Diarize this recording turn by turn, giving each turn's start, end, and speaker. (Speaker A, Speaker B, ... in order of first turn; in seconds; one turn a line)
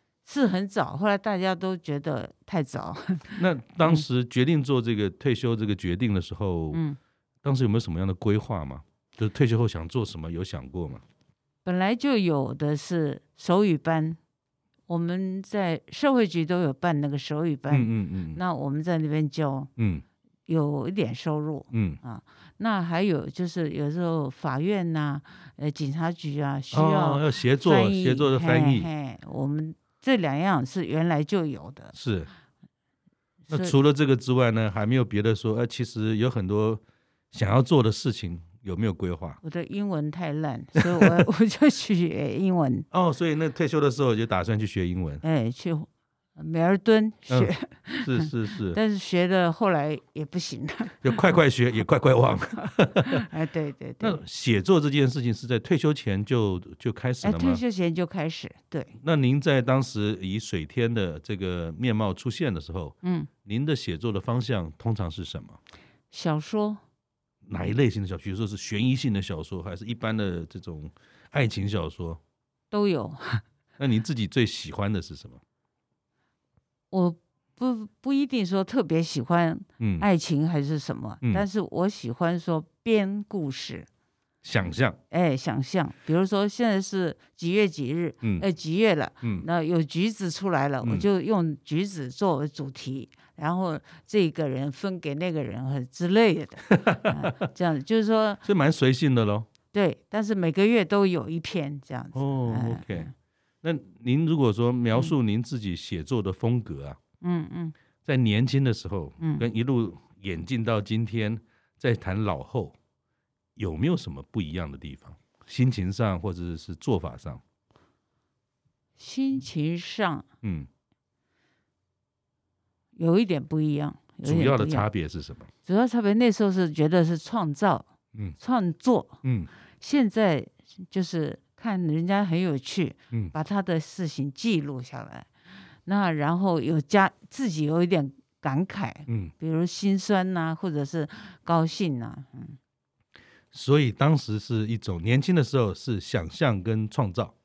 Speaker A: 0.3-4.0
Speaker B: 3.3-6.8
Speaker A: 6.7-7.0
Speaker B: 7.4-11.0
Speaker A: 11.7-14.2
Speaker A: 14.9-19.7
Speaker B: 17.7-18.4
Speaker B: 19.8-20.0
Speaker A: 20.5-31.9
Speaker B: 21.7-22.0
Speaker B: 26.7-28.9
Speaker B: 31.9-32.3
Speaker A: 33.5-33.7
Speaker B: 33.5-39.4
Speaker A: 39.4-42.9
Speaker B: 40.8-41.2
Speaker B: 42.9-45.2
Speaker A: 45.2-51.4
Speaker B: 47.3-48.8
Speaker B: 51.0-53.3
Speaker A: 53.0-54.2
Speaker B: 54.0-57.6
Speaker A: 57.2-58.9
Speaker B: 59.0-65.6
Speaker A: 63.0-63.3
Speaker A: 66.1-66.8
Speaker B: 67.5-72.2
Speaker A: 72.7-73.4
Speaker B: 73.8-75.4
Speaker A: 76.9-83.9
Speaker B: 79.8-80.1
Speaker B: 84.4-85.0
Speaker A: 85.1-98.4
Speaker B: 96.7-97.4
Speaker B: 98.4-99.5
Speaker A: 99.7-103.1
Speaker B: 102.1-103.1
Speaker B: 103.6-107.0
Speaker A: 107.2-107.8
Speaker B: 108.0-112.8
Speaker A: 109.2-109.5
Speaker B: 113.6-117.4
Speaker A: 119.0-120.3
Speaker B: 120.4-120.7
Speaker A: 123.0-124.9
Speaker B: 124.2-125.5
Speaker A: 125.7-127.9
Speaker A: 128.4-129.2
Speaker B: 129.2-129.5
Speaker A: 129.8-135.3
Speaker A: 135.9-142.6
Speaker B: 139.1-139.3
Speaker B: 143.5-147.3